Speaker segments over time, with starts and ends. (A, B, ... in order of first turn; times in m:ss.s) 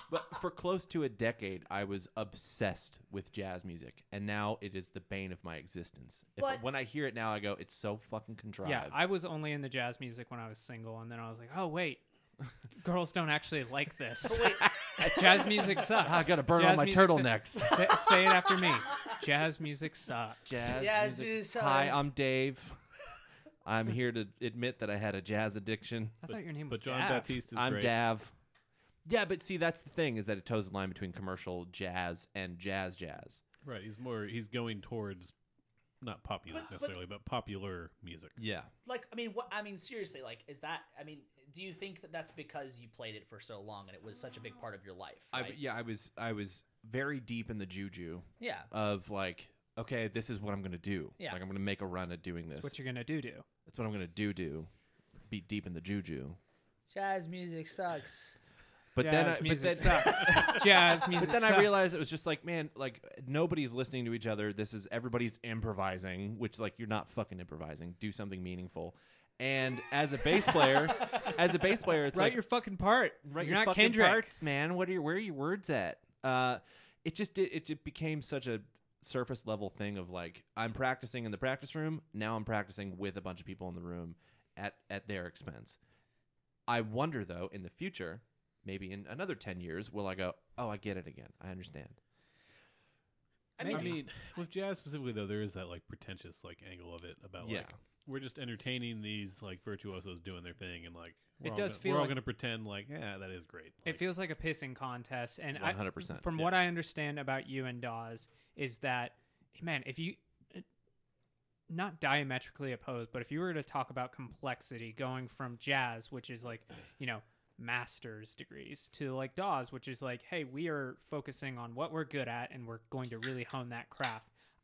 0:00.1-0:09.0 A
0:08.6-0:12.0 B
0:12.8-0:20.7 B
0:14.2-0:16.2 C
0:14.6-0:18.1 A
0:20.4-0:22.8 A
0:20.6-0:22.0 C
0:23.6-0:26.2 A
0:26.2-0:27.4 B
0:26.2-0:27.9 D
0:27.5-0:28.3 A
0:29.0-0:33.4 A
0:33.6-0:35.3 D
0:36.0-0:38.4 D
0:36.5-0:36.9 C
0:38.4-0:38.7 A
0:38.8-0:45.6 C
0:45.3-0:52.7 A
0:48.4-0:48.7 C
0:52.6-0:53.4 B
0:53.6-0:54.7 A
0:55.3-0:56.4 A
0:56.9-0:58.4 C
0:58.9-1:12.4 A
0:59.0-1:01.9 B
1:12.1-1:14.4 B
1:13.2-1:25.8 A
1:26.7-1:32.0 A
1:33.6-1:34.0 C
1:33.6-1:34.0 A
1:33.6-1:34.0 B
1:33.6-1:44.0 D
1:37.4-1:37.7 A
1:41.4-1:42.2 B
1:43.8-1:50.6 B
1:45.6-1:46.5 A
1:51.7-2:04.3 B